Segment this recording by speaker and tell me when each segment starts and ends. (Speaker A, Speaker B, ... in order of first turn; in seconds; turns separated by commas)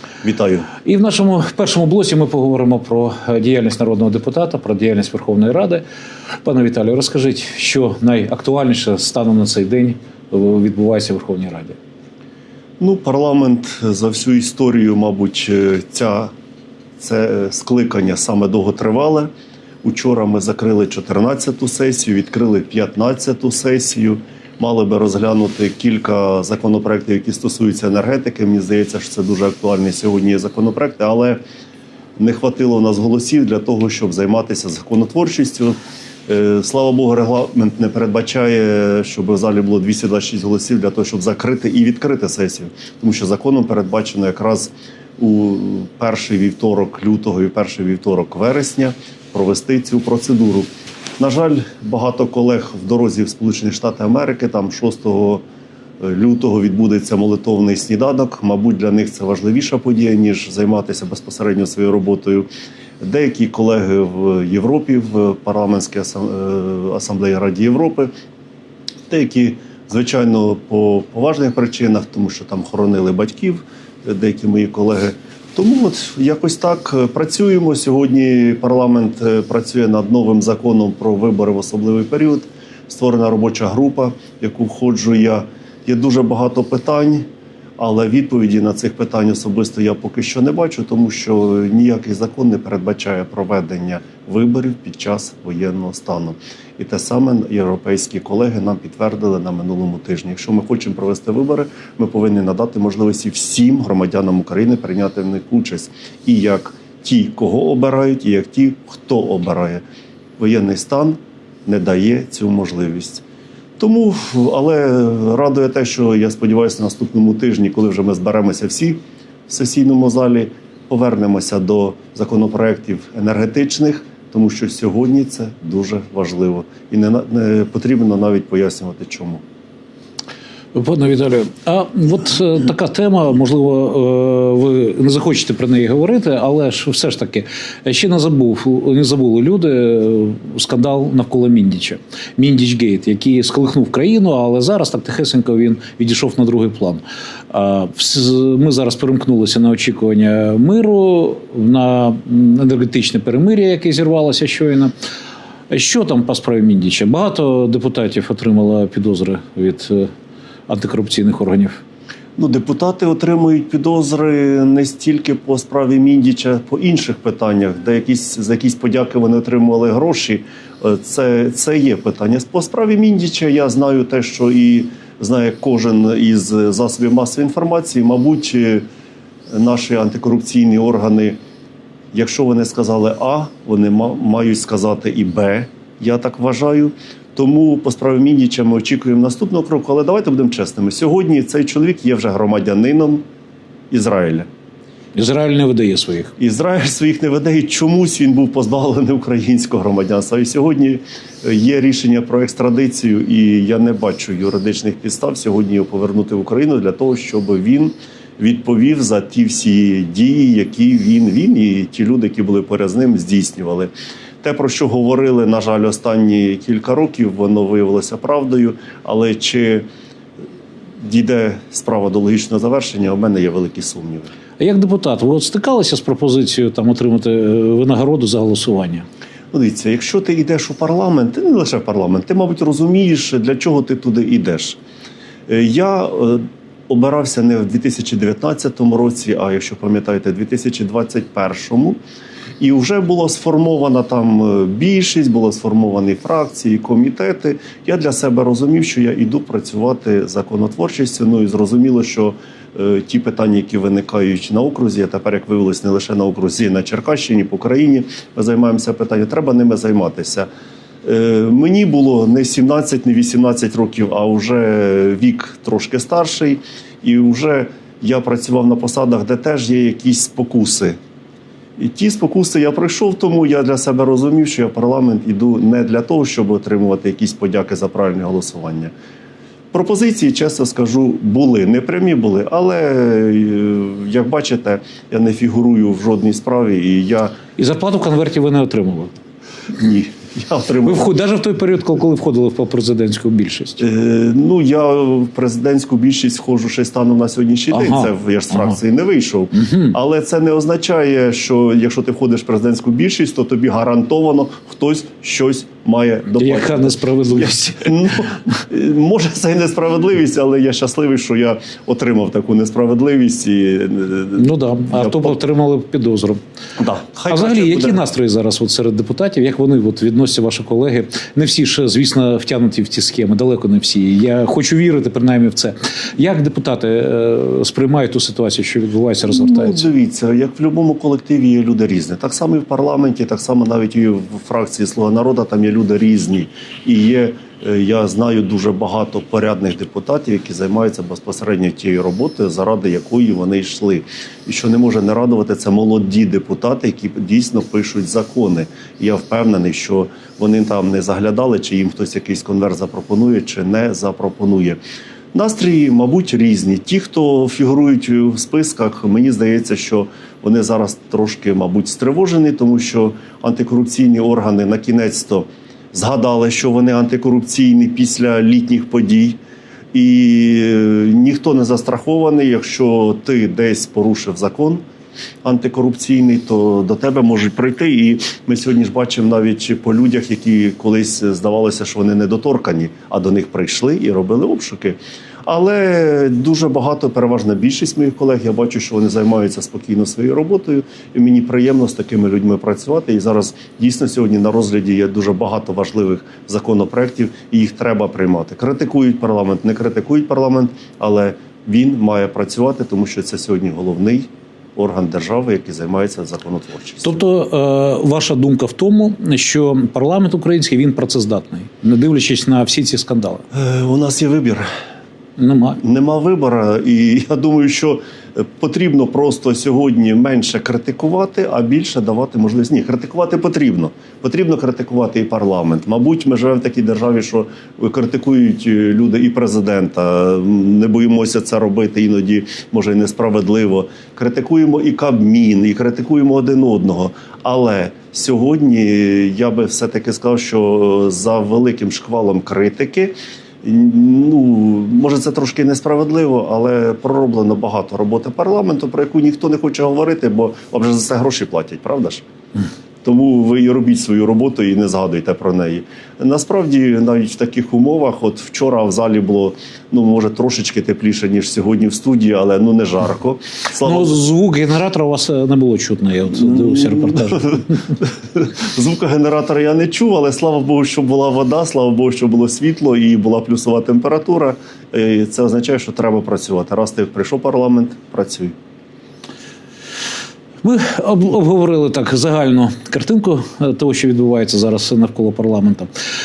Speaker A: 0.2-0.7, Speaker B: 0.8-5.8, Speaker B: 6.5-11.8, Speaker A: 12.8-16.3, Speaker A: 17.0-19.3, Speaker A: 19.8-31.4, Speaker A: 32.2-50.7, Speaker A: 51.2-55.4, Speaker A: 56.0-62.5, Speaker A: 63.0-68.1, Speaker A: 69.1-87.2, Speaker A: 87.8-109.8, Speaker A: 110.4-113.2, Speaker A: 113.8-129.4, Speaker B: 130.7-154.9, Speaker B: 155.7-160.1, Speaker B: 160.7-161.8, Speaker A: 162.4-178.8, Speaker A: 179.5-181.4, Speaker A: 182.1-193.2, Speaker A: 193.9-194.5, Speaker B: 195.2-196.3, Speaker A: 196.4-213.9, Speaker A: 214.4-219.9, Speaker A: 221.0-224.3, Speaker B: 224.6-229.1, Speaker A: 229.5-234.8, Speaker A: 235.5-242.0, Speaker A: 242.6-260.5, Speaker A: 261.0-271.0, Speaker A: 271.8-278.9, Speaker A: 279.7-287.4, Speaker B: 287.6-289.1, Speaker A: 289.8-291.1, Speaker B: 290.9-293.8, Speaker A: 293.8-315.4, Speaker B: 297.7-298.8, Speaker B: 299.6-299.9, Speaker B: 306.3-307.9, Speaker B: 314.4-316.4, Speaker A: 316.8-318.0, Speaker B: 317.3-329.9, Speaker A: 329.2-354.8, Speaker A: 355.3-369.4, Speaker A: 369.9-374.8, Speaker A: 375.4-407.1, Speaker B: 407.0-413.4, Speaker A: 413.5-414.7, Speaker B: 415.4-415.8, Speaker A: 415.8-452.2, Speaker A: 453.0-464.2, Speaker B: 463.8-467.9, Speaker A: 466.3-478.6, Speaker B: 480.6-485.9